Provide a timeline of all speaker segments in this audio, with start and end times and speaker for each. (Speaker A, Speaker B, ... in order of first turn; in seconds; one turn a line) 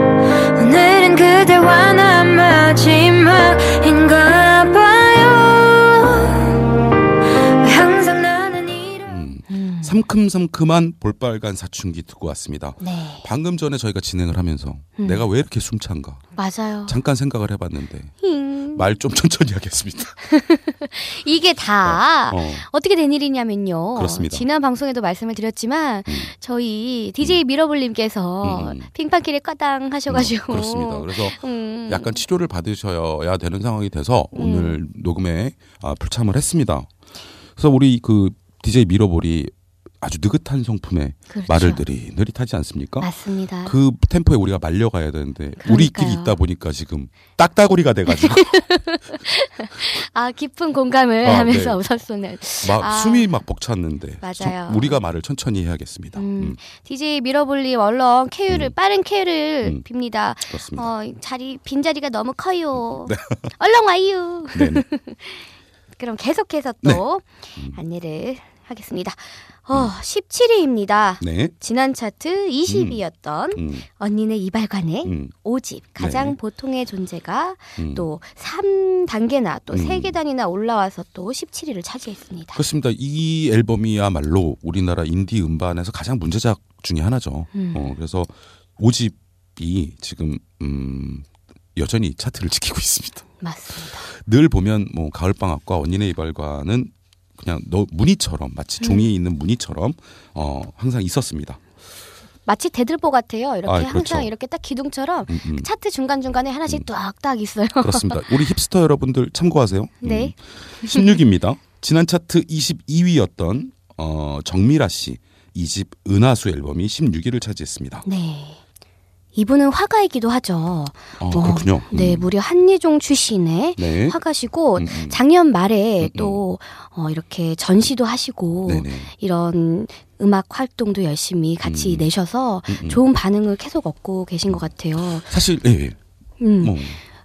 Speaker A: 0.5-9.2
Speaker B: 9.1-16.2
Speaker C: 9.5-10.0
Speaker C: 12.8-13.3
Speaker C: 15.0-15.2
Speaker C: 16.4-17.0
Speaker B: 16.9-18.2
Speaker C: 18.2-18.9
Speaker B: 18.7-20.1
Speaker C: 20.2-32.2
Speaker B: 21.9-22.6
Speaker B: 24.0-24.5
Speaker B: 28.4-28.9
Speaker B: 30.1-36.9
Speaker C: 34.3-34.8
Speaker B: 37.6-43.1
Speaker C: 41.3-41.8
Speaker C: 43.0-43.8
Speaker B: 43.6-48.6
Speaker C: 45.6-46.4
Speaker C: 48.2-53.3
Speaker B: 51.2-51.8
Speaker B: 52.6-56.6
Speaker C: 54.2-55.0
Speaker C: 56.2-65.5
Speaker B: 60.5-60.9
Speaker B: 63.1-63.5
Speaker B: 64.5-64.9
Speaker C: 66.0-82.6
Speaker B: 71.2-71.5
Speaker B: 72.7-73.0
Speaker B: 73.5-73.9
Speaker B: 75.0-75.3
Speaker B: 76.0-76.3
Speaker B: 77.8-78.1
Speaker B: 79.7-80.2
Speaker B: 82.5-93.2
Speaker C: 87.5-87.9
Speaker C: 93.4-94.1
Speaker B: 94.1-101.6
Speaker C: 98.8-99.1
Speaker C: 102.5-108.3
Speaker B: 103.7-104.3
Speaker B: 105.3-105.7
Speaker B: 107.8-118.0
Speaker C: 110.0-111.1
Speaker C: 118.0-118.6
Speaker C: 119.3-135.3
Speaker B: 121.2-122.3
Speaker B: 123.8-124.2
Speaker B: 124.8-125.2
Speaker B: 126.0-126.4
Speaker B: 128.7-129.1
Speaker B: 131.6-132.1
Speaker B: 132.7-133.0
Speaker B: 135.3-136.0
Speaker C: 136.4-136.8
Speaker B: 136.6-137.0